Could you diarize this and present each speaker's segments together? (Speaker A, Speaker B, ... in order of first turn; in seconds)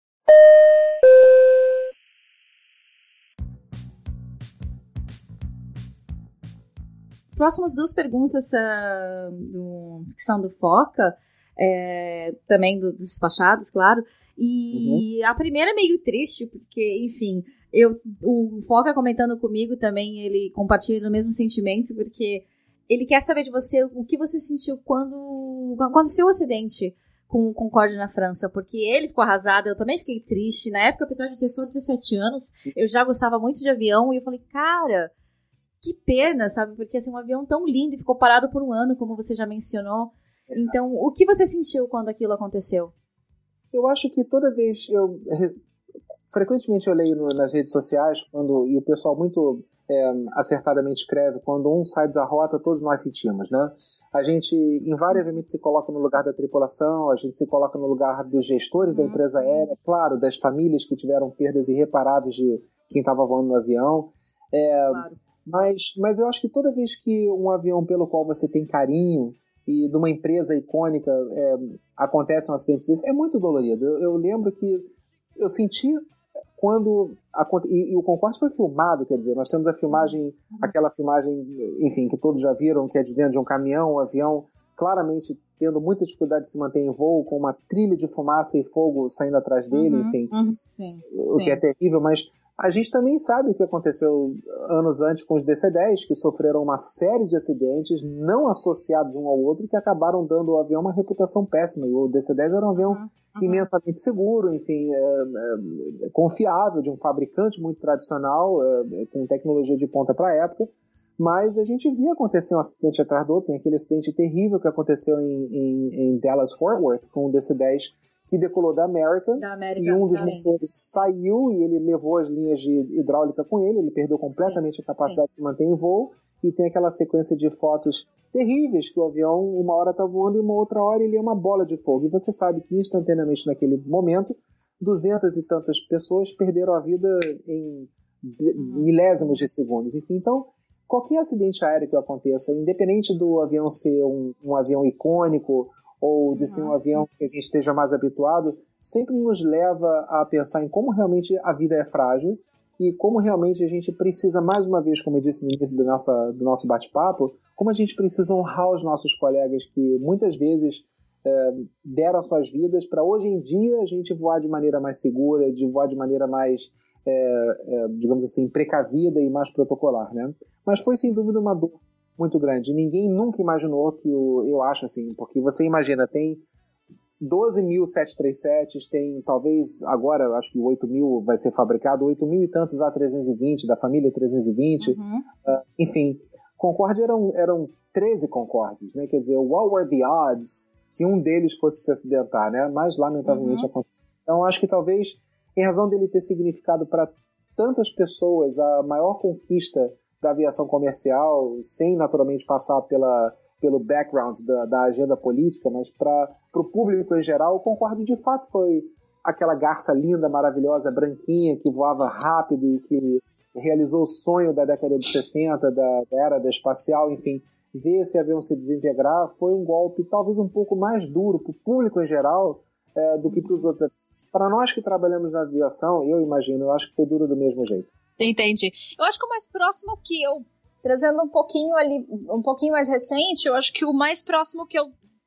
Speaker A: 7.3-35.1, 35.8-42.9, 58.9-59.2, 64.9-65.2, 89.7-91.6, 102.8-103.7, 119.4-120.5, 124.4-125.2, 184.8-185.2, 193.2-193.7
Speaker B: 14.7-15.0, 43.7-45.5, 46.3-76.0, 76.6-90.3, 91.1-176.4, 177.2-227.9
Speaker C: 228.2-234.9